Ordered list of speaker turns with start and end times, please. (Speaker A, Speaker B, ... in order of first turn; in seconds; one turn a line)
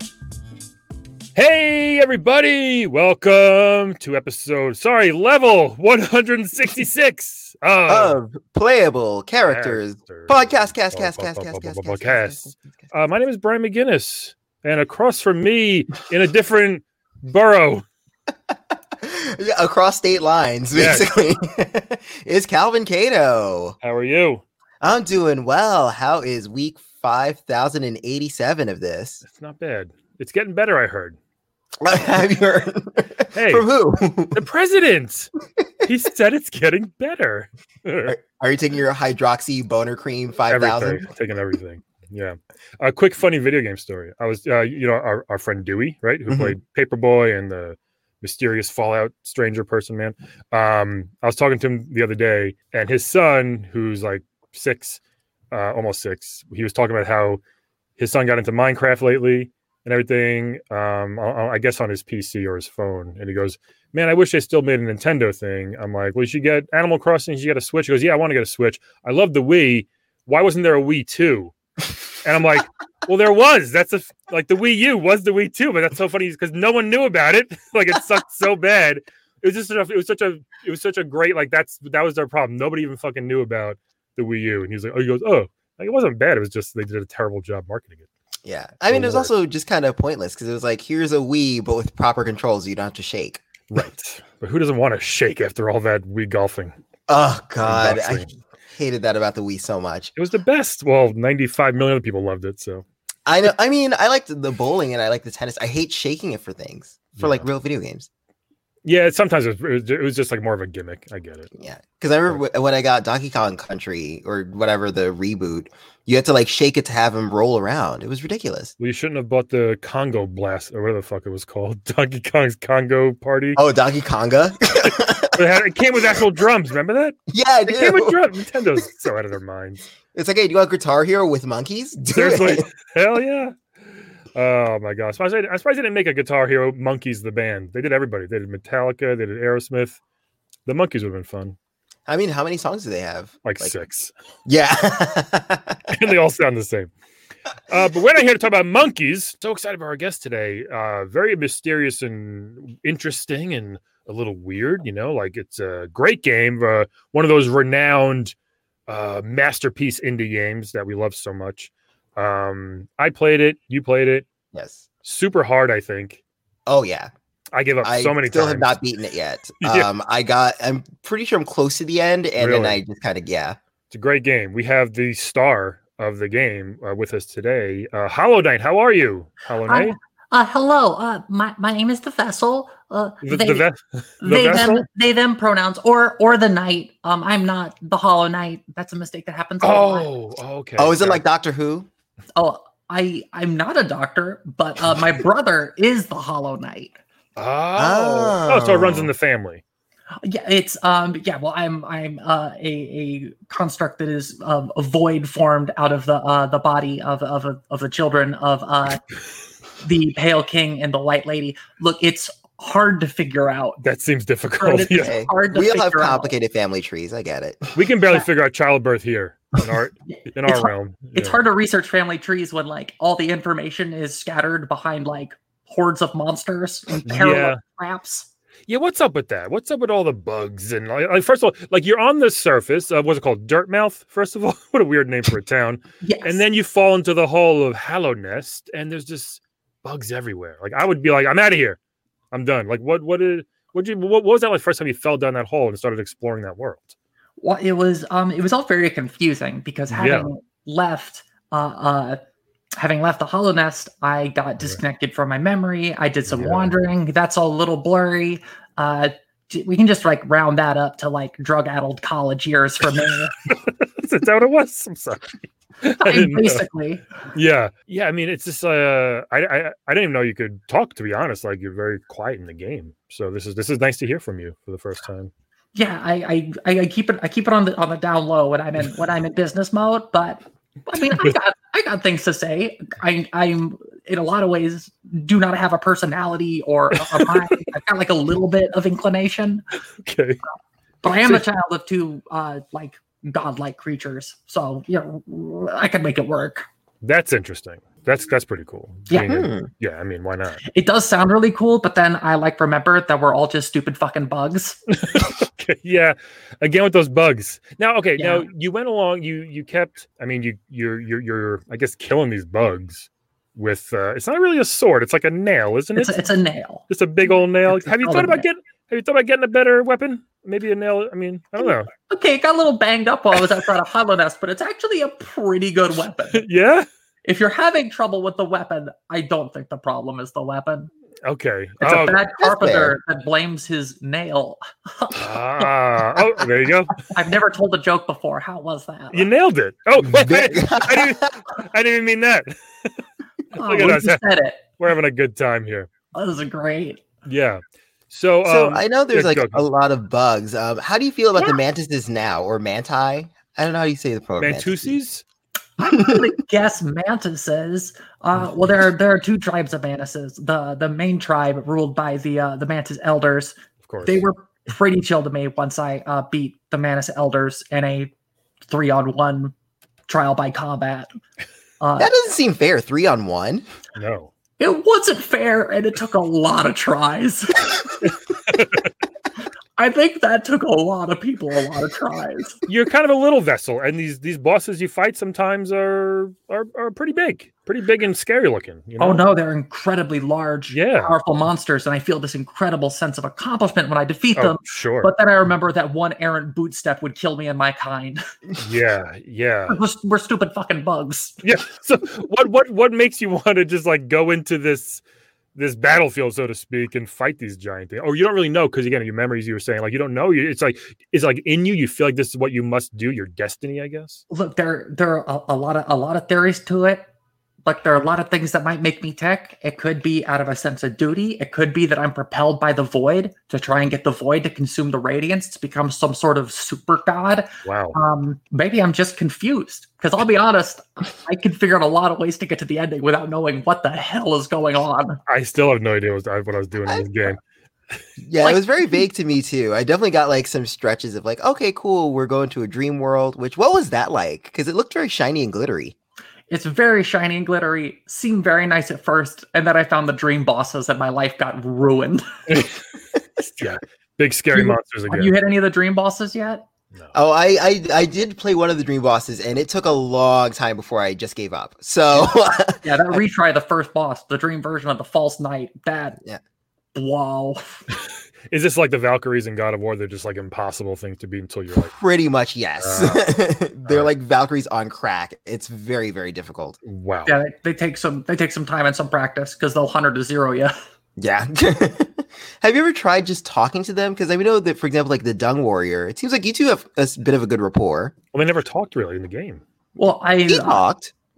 Speaker A: 1.3-8.2
Speaker B: 7.9-12.6
Speaker A: 9.5-17.8
Speaker B: 18.5-23.8
Speaker A: 20.7-21.1
Speaker A: 23.8-24.4
Speaker B: 24.8-29.2
Speaker A: 29.2-31.2
Speaker B: 31.8-34.4
Speaker A: 33.3-33.6
Speaker A: 34.3-35.3
Speaker A: 35.8-38.1
Speaker B: 38.0-41.1
Speaker A: 40.5-55.0
Speaker B: 46.3-46.5
Speaker A: 55.5-57.4
Speaker A: 58.0-71.5
Speaker A: 72.2-88.1
Speaker B: 88.4-93.4
Speaker A: 88.9-89.3
Speaker A: 93.7-96.7
Speaker B: 97.1-100.1
Speaker A: 97.6-98.3
Speaker A: 100.2-102.8
Speaker B: 103.2-108.1
Speaker A: 107.1-107.5
Speaker A: 108.8-111.5
Speaker B: 111.5-118.7
Speaker A: 118.8-123.6
Speaker B: 123.5-125.4
Speaker A: 124.8-129.8
Speaker B: 127.3-128.2
Speaker B: 130.1-132.7
Speaker A: 132.0-133.5
Speaker A: 134.3-140.0
Speaker A: 140.7-141.6
Speaker B: 142.1-143.7
Speaker A: 143.4-144.1
Speaker B: 144.4-145.9
Speaker A: 145.9-146.9
Speaker A: 147.7-158.3
Speaker A: 158.9-164.3
Speaker B: 164.5-164.8
Speaker A: 165.0-166.2
Speaker B: 166.7-167.1
Speaker A: 167.5-168.8
Speaker B: 167.8-173.6
Speaker A: 169.6-169.9
Speaker A: 172.4-172.8
Speaker A: 173.9-179.9
Speaker C: 179.7-183.7
Speaker A: 183.2-184.8
Speaker C: 184.2-190.1
Speaker B: 184.5-184.8
Speaker A: 189.6-191.2
Speaker B: 190.8-191.9
Speaker C: 192.3-197.0
Speaker A: 197.3-199.6
Speaker B: 197.7-199.1
Speaker C: 200.2-209.0
Speaker C: 209.8-213.8
Speaker A: 213.8-215.1
Speaker C: 214.6-216.3
Speaker B: 215.0-217.7
Speaker A: 217.7-221.4
Speaker C: 220.4-228.3
Speaker A: 227.1-227.6
Speaker A: 228.7-241.8
Speaker C: 236.0-236.4
Speaker A: 242.3-246.9
Speaker C: 247.4-252.2
Speaker A: 249.9-250.3
Speaker C: 252.8-263.4
Speaker A: 256.3-256.7
Speaker A: 263.4-266.6
Speaker C: 266.0-267.0
Speaker A: 267.3-275.3
Speaker C: 275.7-289.6
Speaker A: 287.2-287.5
Speaker A: 290.0-290.4
Speaker C: 291.0-296.6
Speaker A: 297.0-300.6
Speaker C: 299.1-299.4
Speaker B: 299.2-299.7
Speaker C: 300.6-304.8
Speaker A: 304.9-316.2
Speaker C: 308.1-308.4
Speaker C: 315.9-316.8
Speaker A: 316.9-321.9
Speaker C: 317.6-318.4
Speaker C: 322.1-326.4
Speaker A: 326.3-326.9
Speaker C: 327.2-330.9
Speaker A: 331.2-332.2
Speaker C: 331.8-336.4
Speaker B: 332.4-332.9
Speaker A: 335.1-337.1
Speaker C: 337.0-339.3
Speaker A: 339.1-342.9
Speaker B: 340.0-341.4
Speaker A: 343.6-344.2
Speaker C: 343.6-344.6
Speaker A: 344.8-345.9
Speaker C: 346.1-347.0
Speaker A: 347.2-349.6
Speaker B: 348.4-354.9
Speaker A: 354.4-355.2
Speaker C: 355.8-368.1
Speaker A: 363.9-364.2
Speaker C: 368.7-369.5
Speaker C: 370.1-371.1
Speaker C: 371.8-372.1
Speaker B: 372.0-373.6
Speaker A: 373.9-374.3
Speaker C: 374.6-378.1
Speaker A: 378.5-378.8
Speaker C: 379.8-382.6
Speaker A: 382.7-389.3
Speaker C: 389.0-398.2
Speaker A: 390.7-391.1
Speaker A: 394.4-395.1
Speaker A: 398.6-399.8
Speaker C: 399.7-401.4
Speaker A: 401.4-405.0
Speaker A: 405.5-414.2
Speaker C: 414.3-417.1
Speaker C: 417.6-435.2
Speaker A: 427.6-427.9
Speaker A: 435.3-437.4
Speaker B: 438.2-445.9
Speaker C: 446.5-452.2
Speaker A: 453.6-455.3
Speaker C: 454.5-456.6
Speaker B: 457.1-463.2
Speaker C: 462.8-466.2
Speaker C: 466.9-467.9
Speaker A: 468.5-471.9
Speaker B: 471.9-476.8
Speaker A: 472.8-473.3
Speaker A: 473.8-474.1
Speaker A: 476.8-477.3
Speaker C: 477.2-480.7
Speaker B: 481.2-488.1
Speaker A: 488.3-489.6
Speaker C: 489.9-490.8
Speaker B: 490.5-491.1